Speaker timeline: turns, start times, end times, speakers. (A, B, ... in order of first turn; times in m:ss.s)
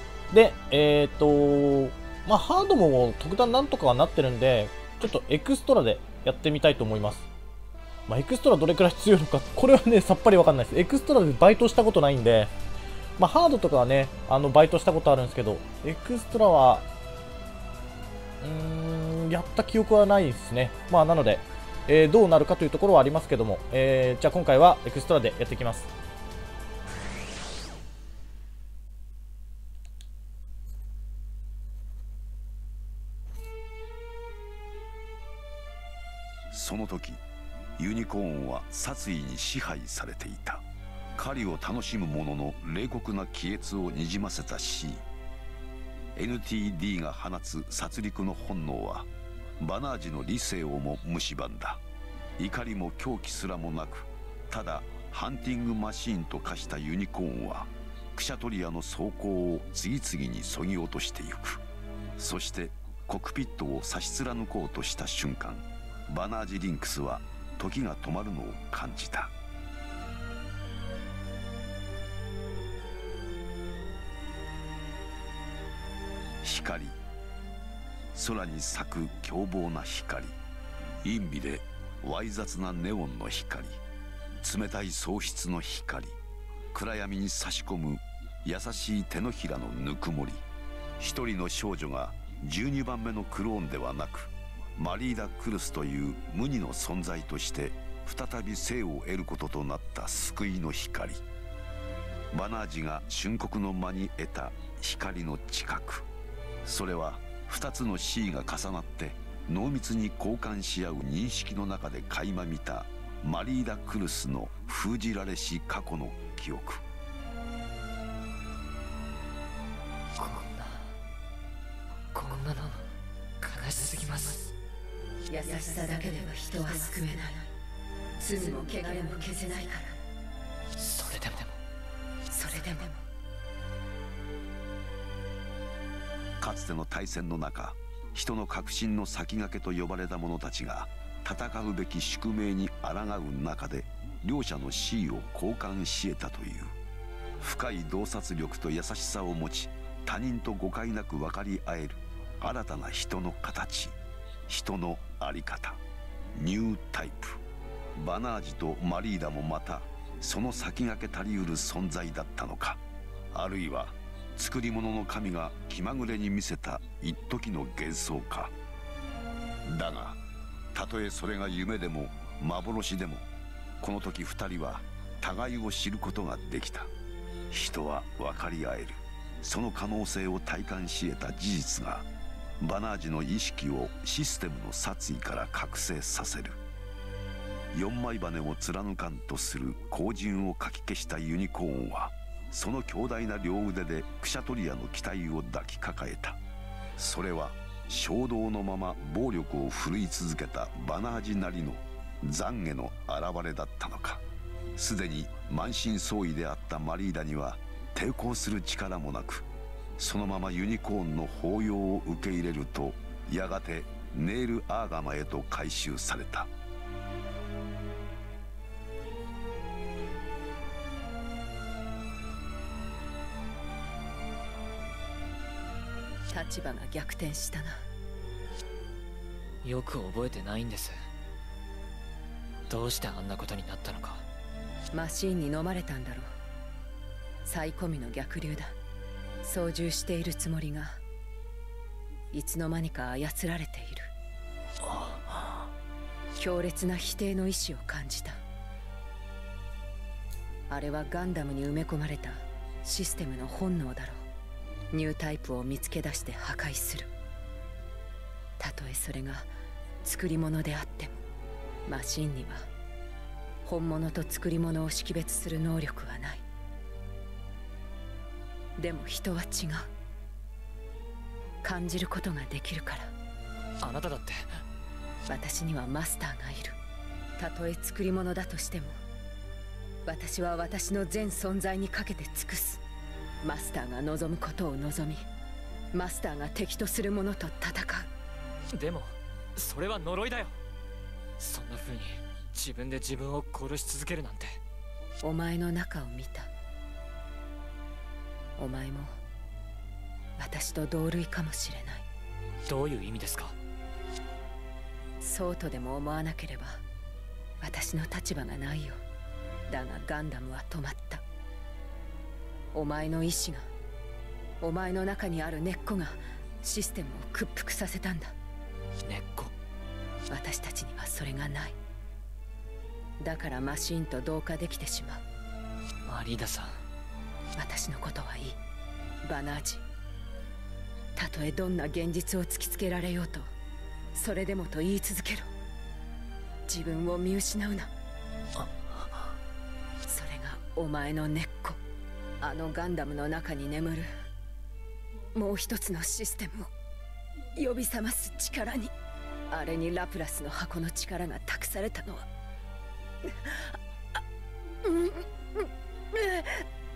0:00.3-0:07.3 A
0:08.1-0:12.5 A
0:13.2-0:16.9 A
0:18.4-0:25.9 A
0:36.5-0:37.2 B
0:37.8-0:40.6 B
0:41.2-0:45.0 B
0:46.2-0:51.8 B
0:52.4-1:01.6 B
1:02.2-1:09.3 B
1:16.4-1:17.0 B
1:18.1-1:20.4 B
1:21.0-1:23.8 B
1:24.4-1:26.2 B
1:26.7-1:30.4 B
1:31.0-1:41.2 B
1:42.3-1:46.0 B
1:46.6-1:56.8 B
2:00.2-2:00.9 C
2:02.1-2:04.5 C
2:05.3-2:07.4 D
2:08.2-2:10.0 D
2:10.8-2:11.6 C
2:12.3-2:13.0 D
2:16.4-2:26.7 B
2:27.4-2:34.0 B
2:34.5-2:35.8 B
2:36.3-2:37.4 B
2:38.0-2:42.8 B
2:43.3-2:48.5 B
2:49.6-2:50.2 B
2:50.7-2:53.2 B
2:53.8-2:56.9 B
2:57.5-3:02.1 B
3:02.6-3:06.6 B
3:07.7-3:16.4 B
3:17.0-3:24.2 B
3:24.8-3:29.4 B
3:30.0-3:36.5 B
3:46.3-3:47.8 D
3:49.6-3:51.0 C
3:52.7-3:54.2 C
3:54.9-3:56.2 D
3:57.4-3:58.7 D
3:59.4-4:01.0 D
4:02.3-4:04.1 D
4:06.3-4:08.4 D
4:10.7-4:14.2 D
4:14.9-4:17.1 D
4:18.6-4:19.5 D
4:20.0-4:21.2 D
4:21.9-4:22.6 D
4:23.6-4:26.4 D
4:28.8-4:29.9 D
4:31.6-4:33.1 D
4:33.8-4:34.6 C
4:35.3-4:36.8 D
4:37.4-4:38.9 D
4:40.0-4:42.8 D
4:43.4-4:45.2 D
4:45.9-4:48.1 D
4:48.7-4:50.5 C
4:51.4-4:54.6 C
4:55.2-4:56.5 D
4:58.6-4:59.1 D
5:00.4-5:02.0 D
5:02.6-5:03.5 C
5:05.2-5:06.8 D
5:07.6-5:09.0 D
5:09.7-5:11.2 D
5:12.7-5:13.6 D
5:14.6-5:18.3 D
5:19.0-5:19.5 C
5:20.3-5:21.8 D
5:23.2-5:25.2 D
5:26.0-5:26.8 C
5:27.6-5:28.6 D
5:29.2-5:29.8 D
5:31.2-5:33.5 D
5:34.1-5:35.5 D
5:36.7-5:37.9 D
5:40.1-5:41.8 D
5:42.4-5:44.1 D
5:45.3-5:46.7 D
5:47.6-5:48.9 D
5:49.5-5:52.2 D
5:53.3-5:53.7 D
5:54.8-5:55.2 D
5:56.1-5:56.6 D